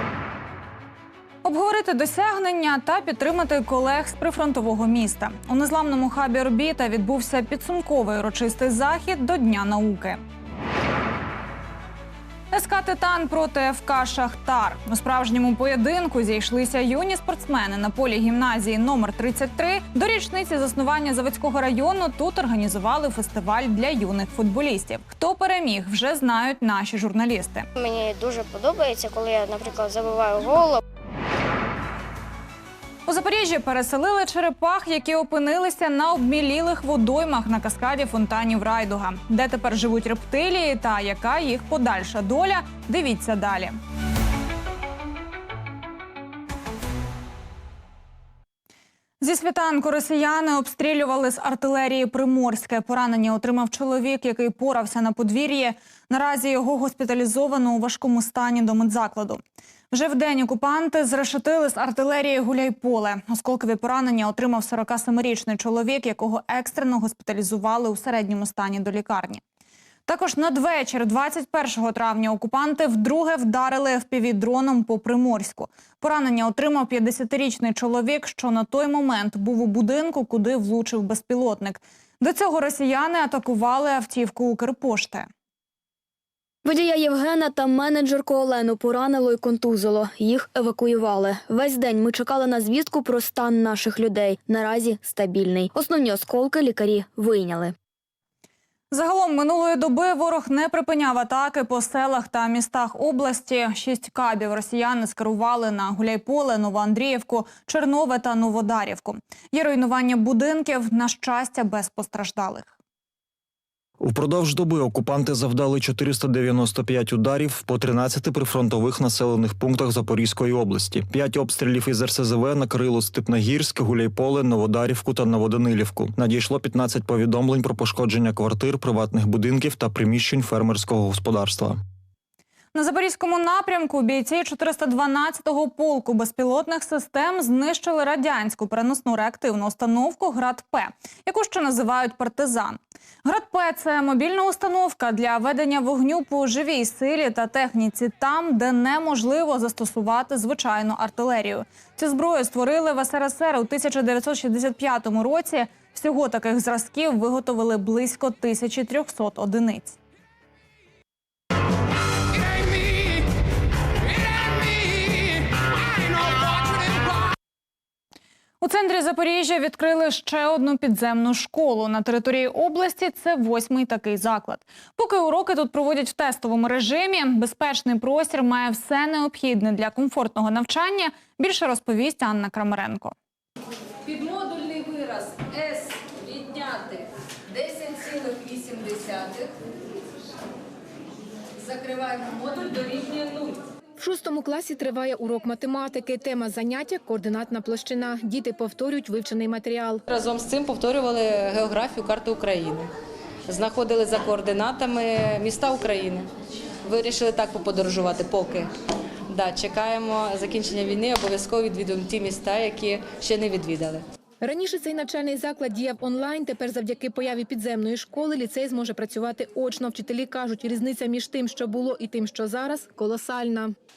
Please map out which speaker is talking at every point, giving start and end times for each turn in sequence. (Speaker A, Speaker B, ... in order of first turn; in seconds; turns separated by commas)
Speaker A: 1.4-10.2, Speaker A: 12.5-27.7, Speaker B: 27.8-30.8, Speaker A: 33.1-43.8, Speaker A: 49.2-69.4, Speaker A: 70.1-85.3, Speaker C: 86.7-97.8, Speaker A: 98.9-112.7, Speaker D: 114.0-131.8, Speaker A: 132.7-160.0, Speaker A: 168.6-183.2, Speaker E: 184.1-189.5, Speaker E: 191.6-193.6, Speaker F: 194.0-200.0, Speaker E: 200.1-202.9, Speaker E: 203.5-206.3, Speaker E: 206.8-208.7, Speaker E: 209.3-214.1, Speaker F: 214.4-223.7